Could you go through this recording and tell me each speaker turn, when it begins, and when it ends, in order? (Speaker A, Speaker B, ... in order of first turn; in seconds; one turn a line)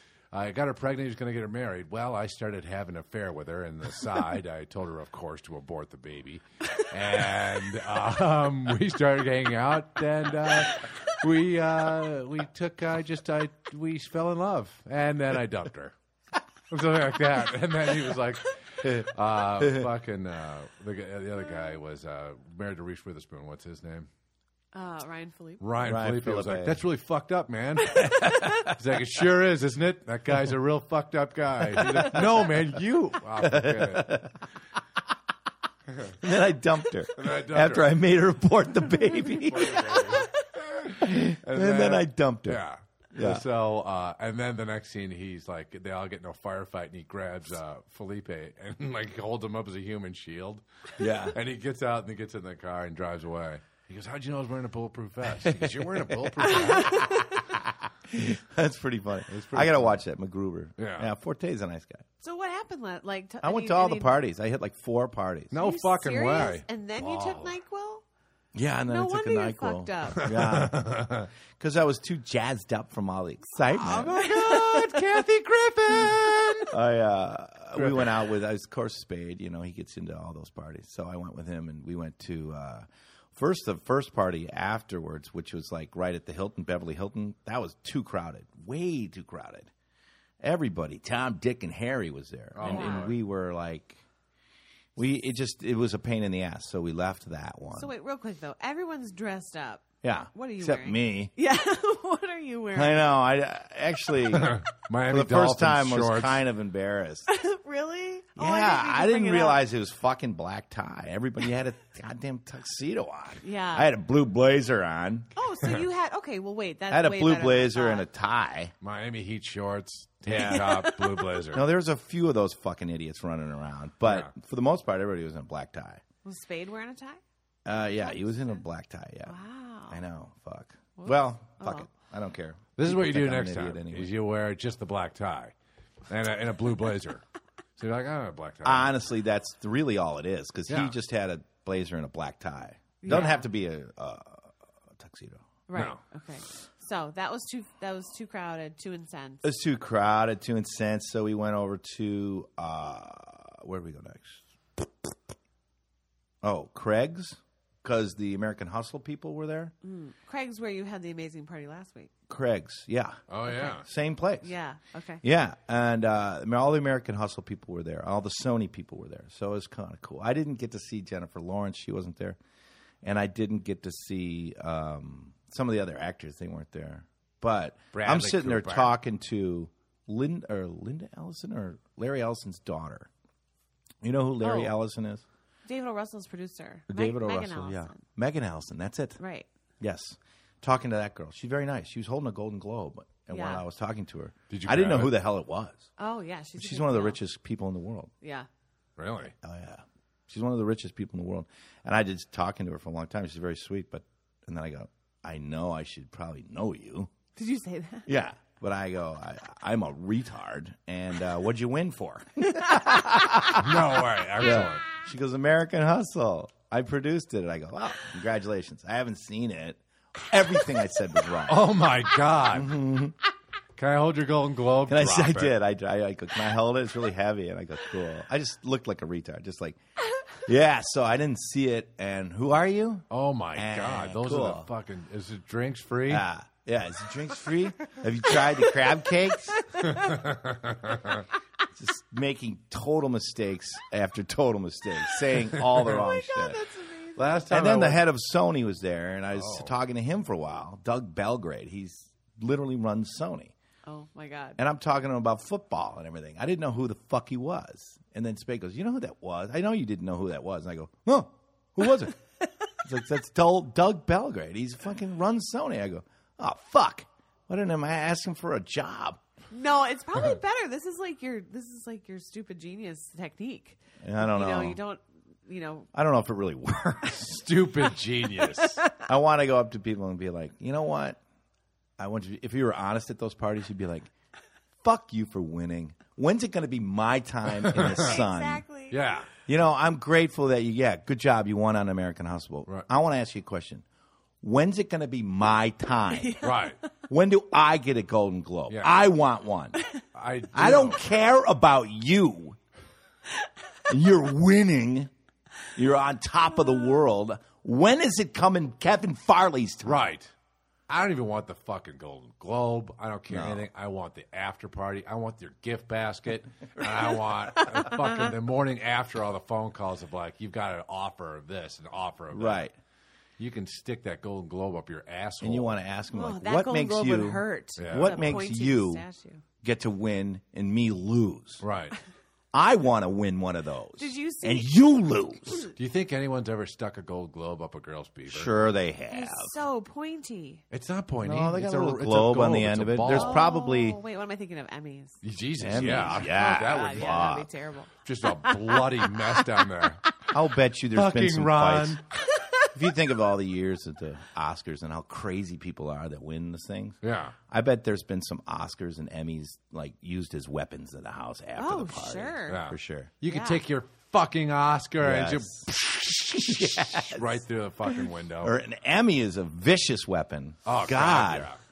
Speaker A: 0.3-15.9
Speaker A: 16.7-24.1
Speaker B: 19.6-19.9
Speaker C: 24.7-25.6
Speaker A: 25.6-34.1
Speaker B: 25.8-26.8
Speaker B: 28.0-28.8
Speaker B: 31.6-34.3
Speaker B: 36.2-40.2
Speaker A: 37.1-37.9
Speaker A: 39.3-57.1
Speaker B: 41.0-42.6
Speaker B: 43.1-43.4
Speaker B: 51.0-51.4
Speaker B: 55.4-62.0
Speaker C: 56.5-57.4
Speaker A: 59.3-60.0
Speaker A: 60.8-61.1
Speaker C: 62.2-64.2
Speaker B: 63.4-65.6
Speaker A: 65.5-67.5
Speaker C: 65.6-68.0
Speaker B: 68.5-74.2
Speaker C: 68.9-70.4
Speaker A: 70.2-71.3
Speaker A: 73.8-76.8
Speaker C: 73.9-75.2
Speaker B: 76.7-89.7
Speaker A: 77.8-78.2
Speaker B: 90.4-94.0
Speaker A: 92.5-93.2
Speaker C: 92.6-93.1
Speaker B: 95.0-97.9
Speaker C: 97.7-103.1
Speaker B: 100.0-101.3
Speaker B: 102.7-107.3
Speaker A: 104.3-106.4
Speaker C: 107.3-109.6
Speaker B: 108.4-115.3
Speaker C: 113.4-113.9
Speaker C: 115.3-118.1
Speaker B: 116.9-118.7
Speaker A: 118.8-121.7
Speaker C: 120.3-121.3
Speaker B: 121.5-126.0
Speaker A: 124.0-124.3
Speaker C: 126.2-127.2
Speaker B: 127.6-129.3
Speaker C: 127.9-128.6
Speaker C: 129.2-130.0
Speaker B: 129.9-134.1
Speaker C: 131.0-131.9
Speaker A: 132.8-135.5
Speaker A: 136.1-137.2
Speaker A: 137.8-138.9
Speaker B: 138.6-145.4
Speaker A: 140.7-140.9
Speaker C: 143.0-143.5
Speaker C: 145.7-149.5
Speaker B: 149.4-154.9
Speaker B: 156.4-159.7
Speaker C: 159.8-162.1
Speaker B: 162.3-164.5
Speaker A: 163.3-163.8
Speaker C: 163.5-163.8
Speaker C: 164.4-165.2
Speaker B: 165.2-172.4
Speaker B: 173.0-183.1
Speaker A: 177.9-178.9
Speaker B: 184.0-185.2
Speaker C: 184.4-184.7
Speaker C: 185.7-188.0
Speaker B: 186.9-189.2
Speaker C: 189.2-189.5
Speaker B: 189.8-195.9
Speaker C: 193.3-193.6
Speaker A: 194.5-195.2
Speaker C: 196.0-197.2
Speaker B: 196.6-198.1
Speaker C: 198.2-198.5
Speaker A: 199.0-199.3
Speaker B: 199.4-207.1
Speaker C: 207.3-208.1
Speaker B: 208.1-221.7
Speaker A: 213.4-214.8
Speaker A: 221.4-222.8
Speaker B: 222.5-223.2
Speaker A: 223.8-225.5
Speaker B: 224.9-229.8
Speaker B: 230.3-234.7
Speaker A: 233.1-236.2
Speaker B: 236.1-239.8
Speaker C: 239.7-240.2
Speaker A: 239.8-241.2
Speaker B: 241.7-246.6
Speaker A: 245.6-245.9
Speaker C: 245.9-247.5
Speaker A: 247.2-248.0
Speaker B: 247.5-253.5
Speaker A: 249.3-249.7
Speaker C: 253.8-254.6
Speaker B: 254.6-262.2
Speaker B: 262.8-269.2
Speaker C: 269.5-275.9
Speaker B: 274.0-274.8
Speaker B: 275.9-277.5
Speaker A: 277.2-278.9
Speaker C: 278.5-279.0
Speaker B: 279.0-281.2
Speaker B: 282.0-284.1
Speaker B: 284.8-288.6
Speaker A: 287.6-288.2
Speaker C: 287.9-289.0
Speaker A: 288.9-289.3
Speaker B: 289.4-293.8
Speaker B: 294.4-296.4
Speaker C: 296.1-296.9
Speaker A: 296.4-296.8
Speaker B: 297.1-299.8
Speaker A: 298.7-299.0
Speaker A: 300.1-301.0
Speaker B: 300.5-302.6
Speaker B: 303.9-305.1
Speaker B: 305.7-310.0
Speaker A: 309.8-310.3
Speaker A: 310.9-322.6
Speaker B: 313.3-313.6
Speaker B: 322.3-322.7
Speaker A: 323.4-325.8
Speaker B: 325.4-329.0
Speaker C: 326.1-329.4
Speaker A: 327.8-328.3
Speaker B: 329.6-331.6
Speaker A: 331.6-331.9
Speaker B: 332.5-335.7
Speaker C: 334.0-334.7
Speaker A: 335.8-338.5
Speaker B: 338.3-339.5
Speaker C: 339.1-340.6
Speaker A: 340.7-343.4
Speaker B: 341.2-344.0
Speaker C: 343.1-350.2
Speaker A: 345.2-347.4
Speaker B: 345.6-347.5
Speaker A: 348.0-350.2
Speaker B: 350.3-352.0
Speaker A: 350.9-352.0
Speaker C: 352.4-352.7
Speaker B: 352.7-357.0
Speaker A: 357.0-357.4
Speaker B: 357.5-363.1
Speaker C: 361.6-362.7
Speaker A: 362.5-368.5
Speaker C: 363.2-363.6
Speaker B: 365.0-365.7
Speaker B: 366.3-367.4
Speaker B: 368.4-371.5
Speaker A: 370.6-371.6